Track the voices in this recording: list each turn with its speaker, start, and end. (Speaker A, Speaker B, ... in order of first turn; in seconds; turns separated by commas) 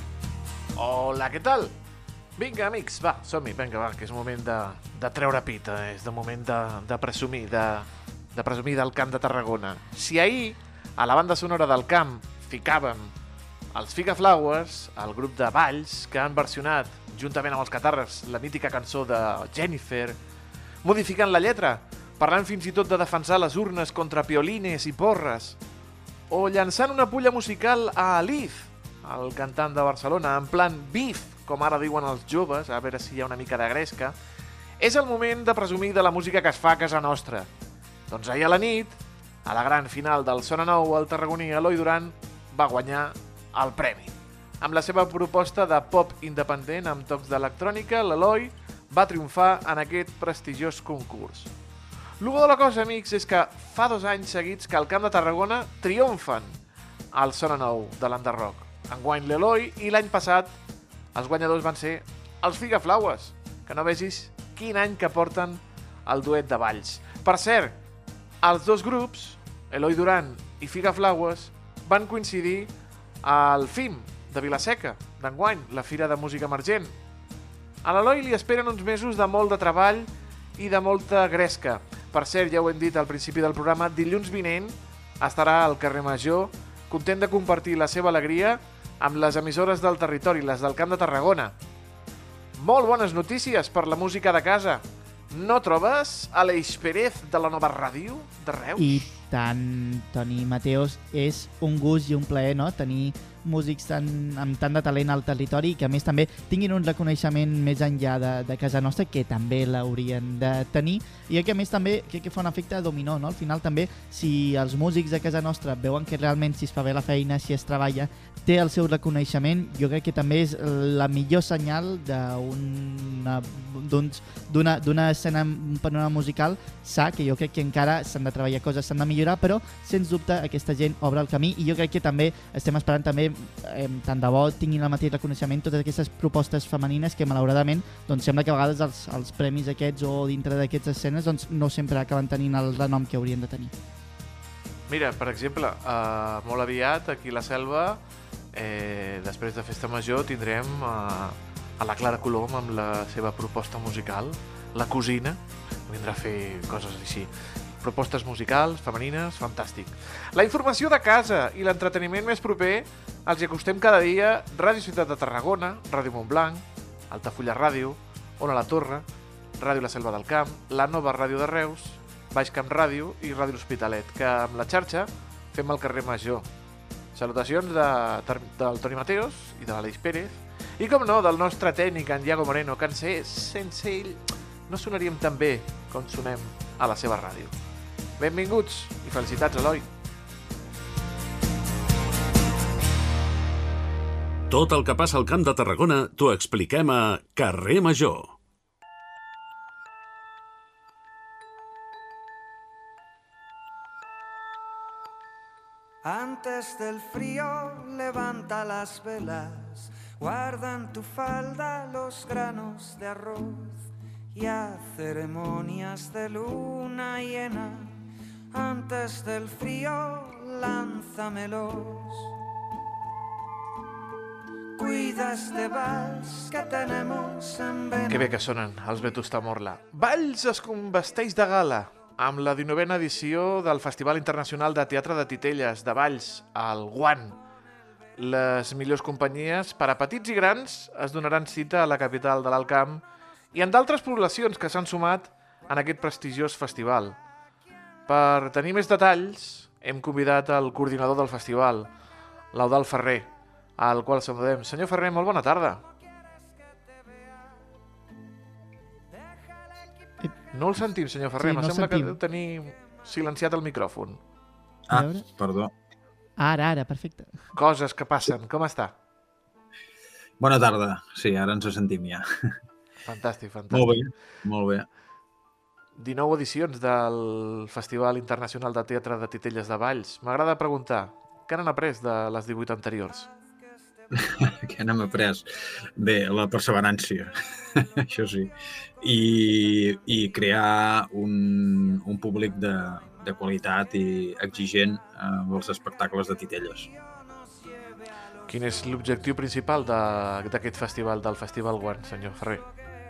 Speaker A: 0.8-1.8, Speaker A: 2.4-13.1, Speaker A: 13.7-20.2, Speaker A: 20.8-25.6, Speaker A: 26.3-34.2, Speaker A: 34.8-37.5, Speaker A: 38.1-51.5, Speaker A: 52.2-56.6, Speaker A: 57.1-60.5, Speaker A: 61.1-67.8, Speaker A: 68.4-72.7, Speaker A: 73.2-77.0, Speaker A: 77.8-91.5, Speaker A: 92.6-99.2, Speaker B: 98.8-143.7, Speaker A: 144.9-148.0, Speaker A: 148.5-169.1, Speaker A: 169.6-176.5, Speaker A: 177.1-187.6, Speaker A: 188.2-189.9, Speaker C: 194.5-198.4, Speaker D: 206.0-218.0, Speaker D: 218.5-222.3, Speaker D: 224.8-228.3, Speaker A: 228.1-237.4, Speaker A: 238.2-247.2, Speaker A: 248.1-251.9, Speaker A: 252.5-255.8, Speaker A: 260.5-264.2, Speaker B: 261.4-262.2, Speaker E: 264.9-265.7, Speaker B: 264.9-265.3, Speaker B: 266.4-267.4, Speaker A: 267.5-269.0, Speaker E: 270.4-272.2, Speaker A: 273.1-274.0, Speaker E: 273.7-274.9, Speaker A: 276.0-283.3, Speaker E: 284.3-296.9, Speaker D: 297.3-298.0, Speaker A: 298.5-302.6